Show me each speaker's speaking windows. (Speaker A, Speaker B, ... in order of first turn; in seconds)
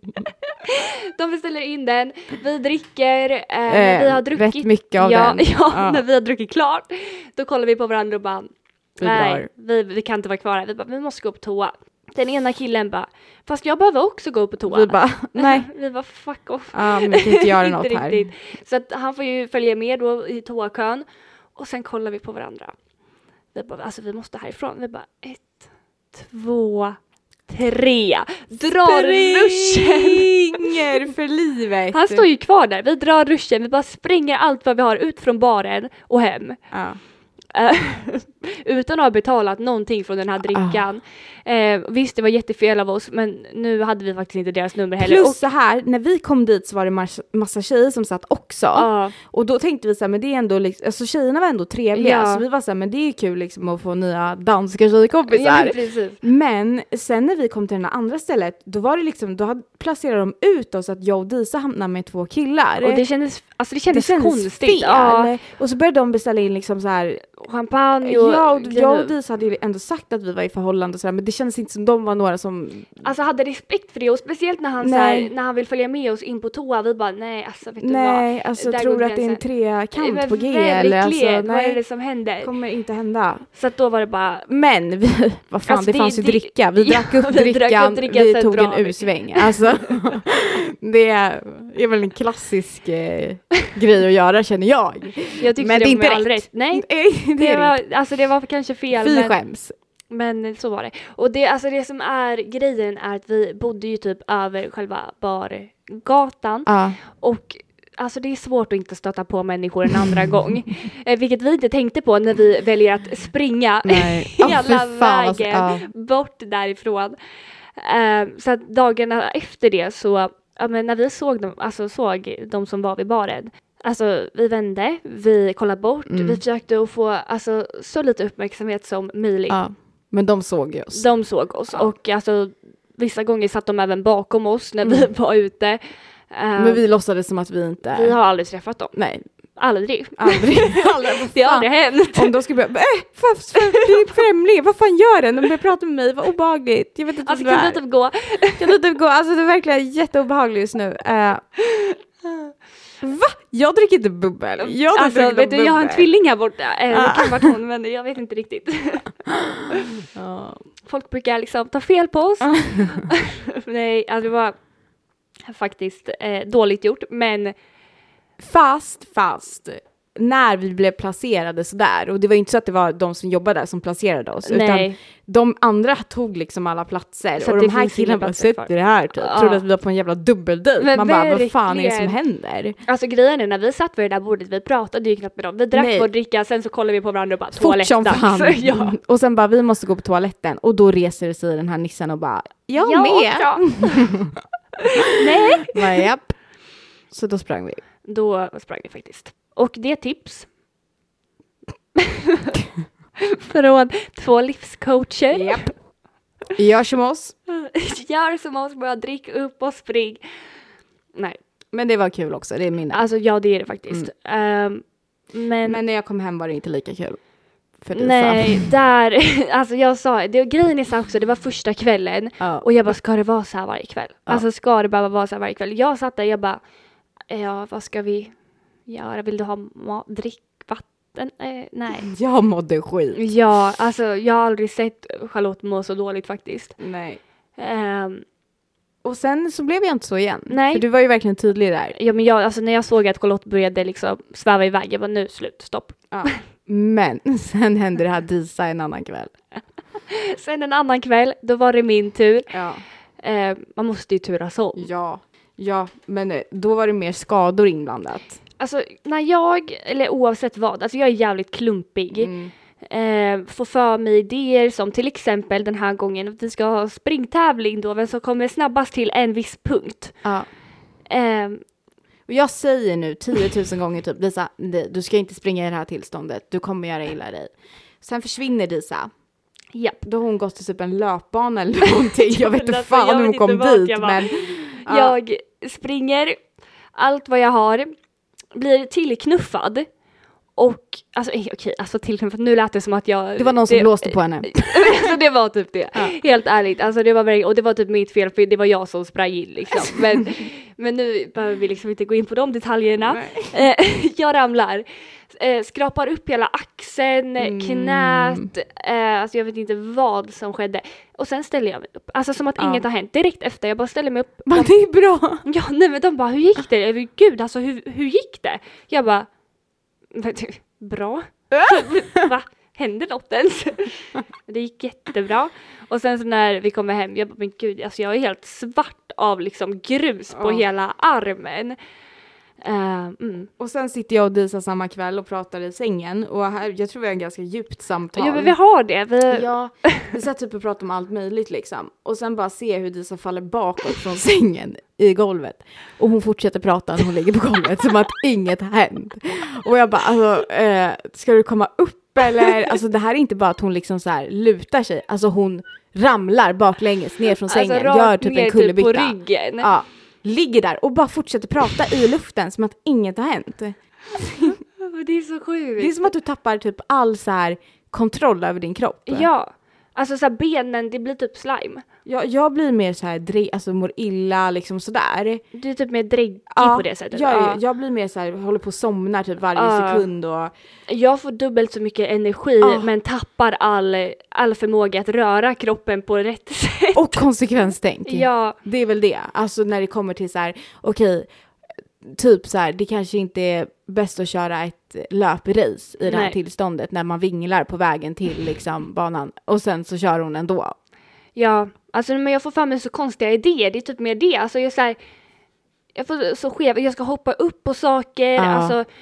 Speaker A: 0.6-21.1, 21.6-22.7, 23.5-30.8, 31.9-36.6, 37.5-45.4, 48.8-49.1, 51.9-52.4, 55.3-56.2, 62.8-65.3, 67.4-69.1, 73.0-82.5, 83.5-84.5, 85.7-89.6, 95.4-99.4, 100.1-117.2, 117.8-129.6, 130.9-136.8, 137.9-138.9, 139.6-142.3, 143.7-144.1, 147.2-148.7, 154.6-159.9, 160.8-164.6, 165.5-167.6, 174.4-175.0, 177.4-179.6, 180.8-182.2, 182.9-189.0, 192.8-194.1, 195.1-195.8, 198.1-200.5, 202.0-202.5, 203.2-205.7, 207.5-210.2, 212.9-215.8, 217.9-226.6, 227.3-228.3, 228.9-232.1, 233.2-236.8, 237.6-238.2, 240.5-240.8, 241.9-246.4, 250.1-252.5, 253.2-254.9, 258.6-270.2, 271.1-271.6, 282.2-286.4, 286.9-287.9, 288.5-289.9, 290.6-314.7, 315.4-319.3, 320.1-331.8, 332.6-333.5, 338.1-340.1, 357.5-359.7, 364.8-366.1, 369.1-371.9, 375.5-377.6, 379.6-380.1, 380.9-387.3, 388.1-388.6, 396.1-396.4, 401.4-405.0, 405.9-408.9
Speaker B: 3.7-6.0, 9.0-9.5, 14.7-15.7, 16.7-18.3, 28.7-32.3, 36.7-37.0, 40.5-40.8, 45.0-63.0, 63.9-67.4, 68.0-73.1, 74.8-75.3, 77.8-81.8, 82.4-83.5, 84.5-97.8, 98.9-99.7, 106.7-107.0, 113.8-115.9, 126.1-126.4, 129.5-131.1, 134.8-135.1, 136.6-138.2, 138.9-139.2, 140.2-147.8, 148.6-151.4, 153.0-156.1, 156.9-157.5, 160.1-160.7, 162.5-162.9, 168.4-182.8, 185.7-186.1, 187.6-194.4, 195.6-196.4, 197.1-197.8, 205.3-205.7, 206.6-207.3, 211.7-213.0, 215.7-217.2, 217.8-218.7, 222.4-222.7, 232.1-233.2, 236.8-237.2, 239.0-241.9, 246.1-249.3, 252.5-252.8, 254.8-258.4, 262.1-262.5, 272.3-279.1, 280.0-285.2, 293.4-295.0, 303.1-303.5, 307.4-308.5, 312.6-312.9, 314.5-315.4, 330.3-330.6, 333.6-338.5, 339.3-364.6, 365.8-369.3, 372.1-375.4, 376.5-380.5, 382.6-382.9, 386.9-391.3, 392.0-400.8, 408.4-408.8